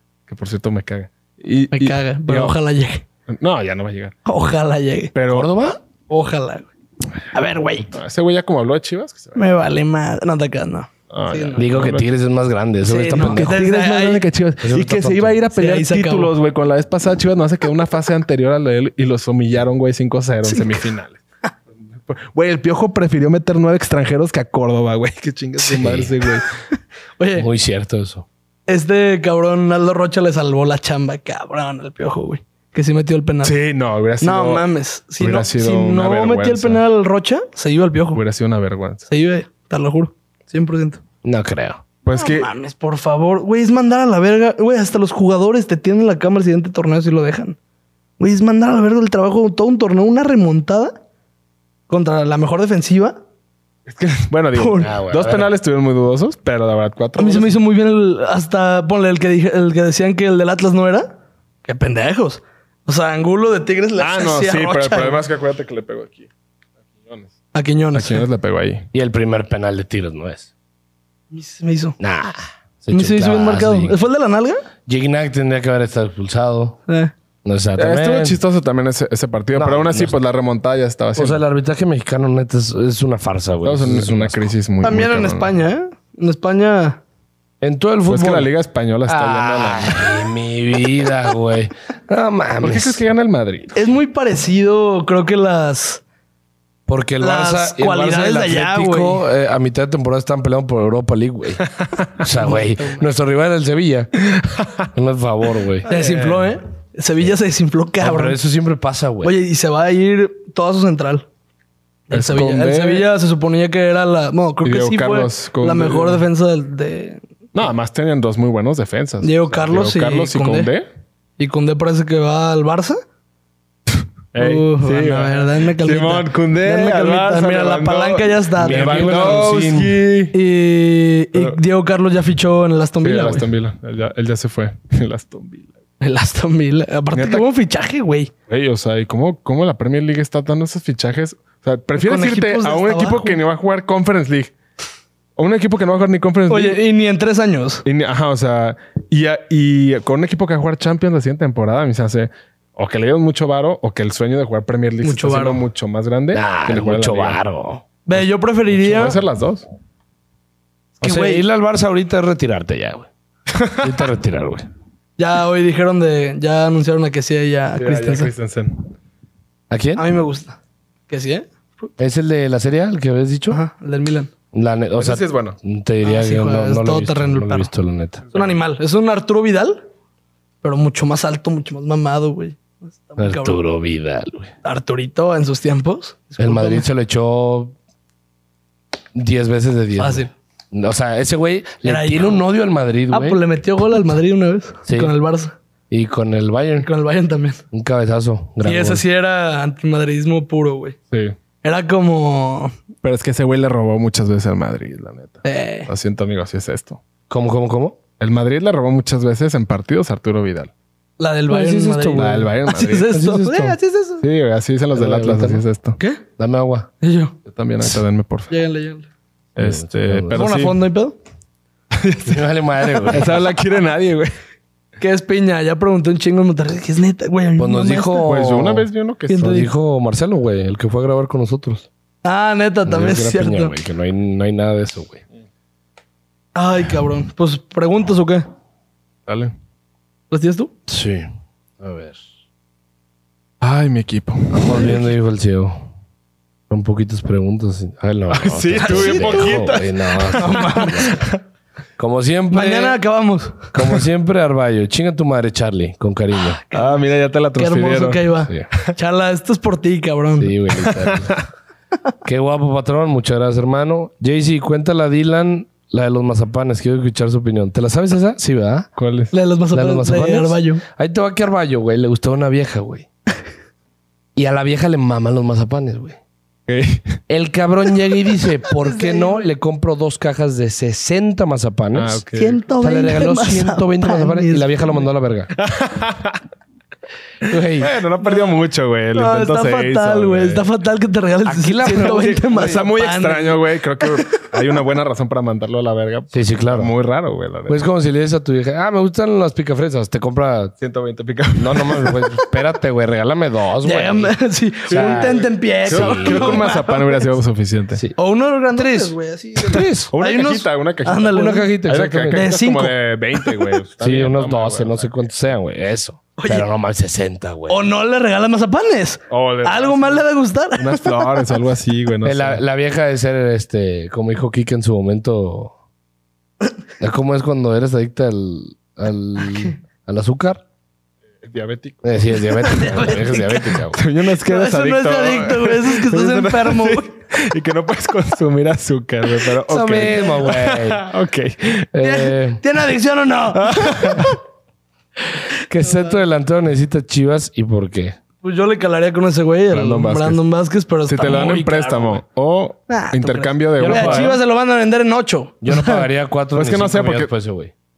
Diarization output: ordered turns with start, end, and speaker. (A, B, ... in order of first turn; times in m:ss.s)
0:00.3-0:02.6 A
0:01.7-0:03.0 B
0:03.3-0:04.1 A
0:04.3-0:05.1 B
0:05.2-0:05.5 A
0:05.3-0:05.8 C
0:06.1-0:06.7 B
0:07.3-0:07.9 B
0:07.9-0:09.4 A
0:09.4-0:11.6 B
0:11.1-0:12.1 A
0:11.6-0:13.6 C
0:12.8-0:14.2 B
0:13.2-0:21.2 A
0:14.6-0:15.4 C
0:15.6-0:16.3 B
0:20.4-0:20.9 B
0:22.1-0:26.5 A
0:25.7-0:26.1 C
0:27.2-0:27.5 B
0:27.4-0:28.3 C
0:28.7-0:33.5 B
0:33.4-0:34.7 A
0:34.2-0:38.2 B
0:35.2-0:36.8 A
0:38.2-0:39.1 A
0:39.1-0:41.0 B
0:41.2-0:41.8 C
0:42.0-0:42.5 A
0:42.1-0:47.6 B
0:48.2-0:51.0 B
0:51.9-0:53.2 B
0:53.9-0:57.6 A
0:54.6-0:54.9 B
0:54.8-0:55.5 C
0:57.2-1:05.2 B
1:04.0-1:06.3 A
1:07.0-1:07.3 A
1:07.5-1:08.2 B
1:07.9-1:08.9 A
1:08.9-1:10.5 C
1:11.3-1:12.0 B
1:12.0-1:14.0 C
1:12.9-1:14.6 B
1:14.9-1:16.8 C
1:16.9-1:17.1 B
1:17.4-1:18.4 C
1:17.8-1:21.4 A
1:19.5-1:20.2 C
1:21.2-1:24.5 C
1:23.6-1:25.5 A
1:24.8-1:27.0 B
1:27.6-1:28.5 C
1:28.1-1:30.3 A
1:29.1-1:33.0 C
1:32.6-1:33.7 A
1:33.8-1:36.0 B
1:36.9-1:41.6 C
1:37.2-1:39.2 B
1:42.2-1:44.1 C
1:42.4-1:43.1 B
1:44.3-1:44.8 A
1:44.9-1:45.9 C
1:45.9-1:46.5 A
1:45.9-1:48.4 B
1:48.0-1:49.4 C
1:49.2-1:51.2 B
1:52.1-1:57.2 B
1:52.1-1:53.1 A
1:54.6-1:56.2 A
1:57.6-2:00.9 A
1:59.2-2:00.7 B
2:01.4-2:03.0 B
2:04.3-2:10.4 A
2:04.4-2:09.5 B
2:08.6-2:10.0 C
2:10.3-2:13.5 B
2:13.0-2:15.7 A
2:16.0-2:18.3 B
2:17.1-2:17.5 A
2:18.5-2:24.5 A
2:22.0-2:23.4 B
2:25.4-2:26.8 A
2:26.5-2:27.8 B
2:27.8-2:37.4 A
2:35.0-2:35.6 B
2:36.3-2:37.8 C
2:38.1-2:39.2 B
2:38.1-2:39.7 A
2:41.0-2:41.4 B
2:41.0-2:43.1 C
2:43.5-2:44.1 A
2:43.8-2:44.7 C
2:45.2-2:48.3 B
2:47.8-2:48.9 A
2:49.7-2:50.0 C
2:50.0-2:50.6 B
2:51.1-2:51.9 B
2:52.0-2:53.6 C
2:53.5-2:54.3 B
2:54.5-2:58.2 C
2:55.0-2:55.6 A
2:56.0-2:57.7 B
2:58.3-2:59.8 B
3:00.6-3:03.6 B
3:03.2-3:04.5 C
3:04.6-3:06.9 B
3:06.4-3:07.7 C
3:09.1-3:13.4 C
3:10.0-3:10.3 B
3:11.8-3:12.4 B
3:13.1-3:15.5 B
3:14.9-3:15.1 C
3:15.9-3:16.9 C
3:16.8-3:17.6 B
3:17.7-3:19.0 C
3:18.6-3:21.0 B
3:21.6-3:22.7 B
3:23.0-3:27.0 A
3:25.4-3:25.9 B
3:27.3-3:28.0 C
3:28.2-3:30.7 A
3:31.2-3:34.2 B
3:31.5-3:32.5 C
3:32.2-3:33.1 A
3:33.1-3:33.8 C
3:34.2-3:36.0 A
3:34.9-3:35.6 C
3:36.0-3:36.2 B
3:36.4-3:36.9 C
3:37.0-3:37.4 B
3:37.5-3:38.5 A
3:38.5-3:39.1 B
3:39.6-3:40.8 A
3:39.6-3:40.5 C
3:40.3-3:41.2 B
3:41.9-3:42.4 A
3:42.3-3:43.4 C
3:43.1-3:44.3 A
3:45.0-3:48.3 B
3:47.6-3:51.9 C
3:48.2-3:49.6 A
3:49.3-3:49.7 B
3:52.2-3:53.8 B
3:52.9-3:55.2 C
3:56.6-3:58.5 B
3:59.3-3:59.5 A
4:00.3-4:00.7 B
4:00.9-4:02.2 C
4:03.6-4:05.0 A
4:04.5-4:05.8 C
4:06.7-4:11.2 C
4:08.3-4:11.4 A
4:08.8-4:09.7 B
4:10.4-4:11.2 B
4:12.0-4:13.0 C
4:12.5-4:13.7 B
4:13.7-4:16.6 C
4:16.7-4:17.0 B
4:16.7-4:18.9 A
4:17.6-4:20.6 B
4:20.4-4:21.4 C
4:20.8-4:21.4 A
4:22.2-4:28.9 C
4:29.0-4:29.3 A
4:29.3-4:30.8 B
4:29.7-4:33.1 C
4:34.4-4:36.2 C
4:36.7-4:37.2 A
4:37.3-4:42.2 C
4:38.8-4:39.4 B
4:41.9-4:42.6 A
4:42.3-4:45.0 B
4:42.8-4:45.5 C
4:45.6-4:46.4 A
4:47.5-4:47.9 C
4:47.5-4:50.7 A
4:48.2-4:48.6 B
4:49.2-4:54.5 B
4:51.5-4:52.8 C
4:52.4-4:57.8 A
4:56.3-4:56.9 C
4:57.7-5:00.7 C
5:00.8-5:02.3 A
5:01.6-5:04.4 C
5:03.8-5:07.2 B
5:04.9-5:08.0 A
5:04.9-5:06.8 C
5:08.2-5:11.8 B
5:08.8-5:10.1 C
5:09.8-5:15.1 A
5:11.3-5:12.5 C
5:12.3-5:13.7 B
5:14.0-5:17.9 C
5:16.4-5:16.7 B
5:17.7-5:21.5 B
5:19.3-5:22.6 A
5:22.2-5:25.7 C
5:27.0-5:30.6 C
5:31.4-5:32.4 A
5:32.0-5:34.0 C
5:32.6-5:33.8 B
5:33.9-5:41.9 A
5:34.4-5:37.1 B
5:39.6-5:41.0 C
5:41.9-5:42.6 C
5:42.0-5:44.4 B
5:43.6-5:44.4 A
5:45.6-5:48.2 C
5:45.8-5:46.2 B
5:48.4-5:52.2 B
5:49.7-5:50.4 A
5:51.1-5:54.4 A
5:52.9-5:56.0 B
5:53.8-5:54.4 C
5:55.6-5:57.7 C
5:56.6-5:57.3 A